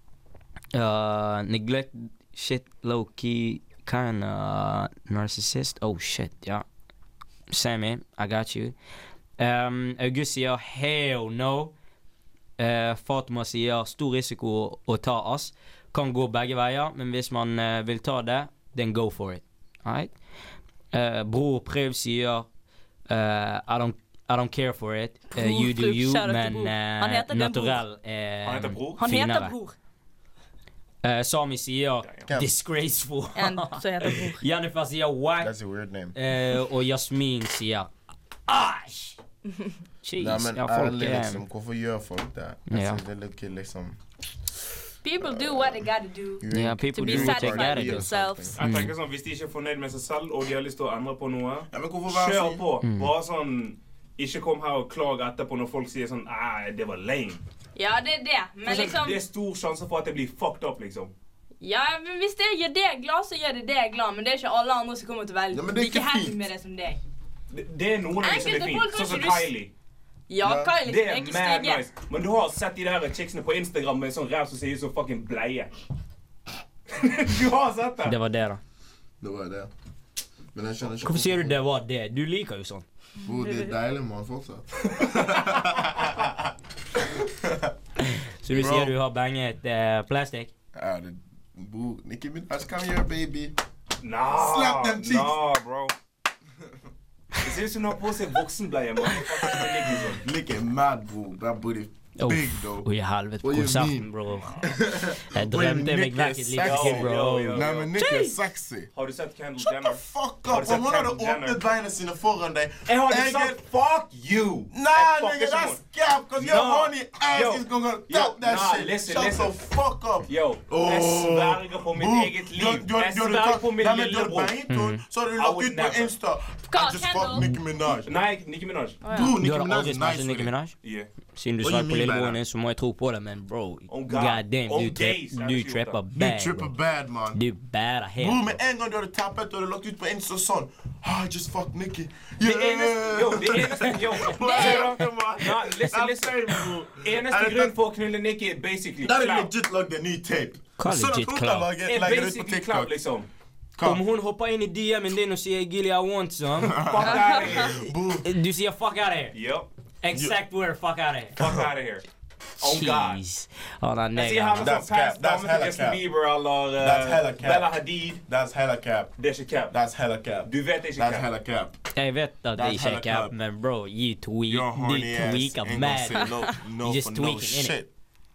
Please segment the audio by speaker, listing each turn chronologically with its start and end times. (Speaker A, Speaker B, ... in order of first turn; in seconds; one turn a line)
Speaker A: 0.7-6.6
Speaker A: 7.5-8.7
Speaker A: 9.4-11.7
Speaker A: 12.6-20.1
Speaker A: 20.9-22.5
Speaker A: 23.1-29.5
Speaker B: 25.3-27.8
Speaker C: 28.4-29.0
Speaker B: 29.0-29.8
Speaker A: 31.0-35.5
Speaker B: 33.3-34.4
Speaker D: 35.4-36.1
Speaker A: 36.1-37.9
Speaker A: 38.5-39.2
Speaker A: 40.0-41.4
Speaker D: 40.2-44.0
Speaker A: 42.7-43.0
Speaker B: 45.0-48.5
Speaker D: 45.2-45.9
Speaker D: 46.4-48.6
Speaker A: 46.5-48.9
Speaker C: 48.5-57.4
Speaker D: 51.7-52.6
Speaker A: 52.8-53.1
Speaker B: 57.8-59.2
Speaker C: 58.6-61.1
Speaker B: 61.6-67.0
Speaker D: 65.5-66.4
Speaker C: 67.5-69.7
Speaker B: 68.2-69.5
Speaker B: 70.3-71.8
Speaker D: 70.4-70.8
Speaker C: 70.8-75.7
Speaker C: 76.9-78.2
Speaker A: 78.0-78.6
Speaker D: 79.2-79.7
Speaker D: 80.5-81.6
Speaker A: 81.0-82.8
Speaker D: 83.2-86.5
Speaker D: 87.1-87.7
Speaker A: 88.3-90.5
Speaker D: 88.5-88.9
Speaker D: 90.7-93.5
Speaker C: 94.0-95.9
Speaker D: 94.3-95.3
Speaker C: 97.4-100.2
Speaker D: 99.4-102.9
Speaker A: 102.2-107.7
Speaker D: 103.4-108.9
Speaker C: 106.5-107.9
Speaker B: 108.0-108.4
Speaker C: 108.9-111.6
Speaker D: 109.7-113.6
Speaker C: 112.9-115.8
Speaker D: 114.7-128.1
Speaker C: 116.4-119.6
Speaker C: 120.3-124.5
Speaker A: 124.7-125.0
Speaker C: 125.3-126.1
Speaker B: 126.7-127.4
Speaker C: 128.0-129.0
Speaker B: 129.0-129.3
Speaker D: 129.1-130.5
Speaker A: 129.3-130.7
Speaker C: 130.8-131.1
Speaker A: 131.3-136.7
Speaker D: 131.6-132.4
Speaker C: 133.9-136.0
Speaker D: 136.1-137.4
Speaker A: 137.3-138.6
Speaker D: 138.2-147.8
Speaker C: 142.4-146.4
Speaker B: 144.4-144.9
Speaker C: 147.0-149.5
Speaker D: 149.0-152.9
Speaker A: 150.8-151.7
Speaker C: 151.8-153.3
Speaker D: 153.7-154.0
Speaker A: 153.8-156.8
Speaker D: 156.6-158.3
Speaker C: 156.8-157.7
Speaker B: 157.1-157.6
Speaker A: 158.2-159.3
Speaker C: 159.3-159.7
Speaker A: 160.0-161.4
Speaker D: 160.1-160.4
Speaker C: 161.4-162.1
Speaker C: 162.6-163.2
Speaker A: 162.6-164.8
Speaker C: 164.1-168.2
Speaker D: 164.6-166.0
Speaker D: 166.8-169.1
Speaker C: 169.2-169.7
Speaker D: 169.7-171.8
Speaker C: 170.4-171.3
Speaker A: 171.9-177.7
Speaker D: 172.5-173.3
Speaker D: 174.5-177.9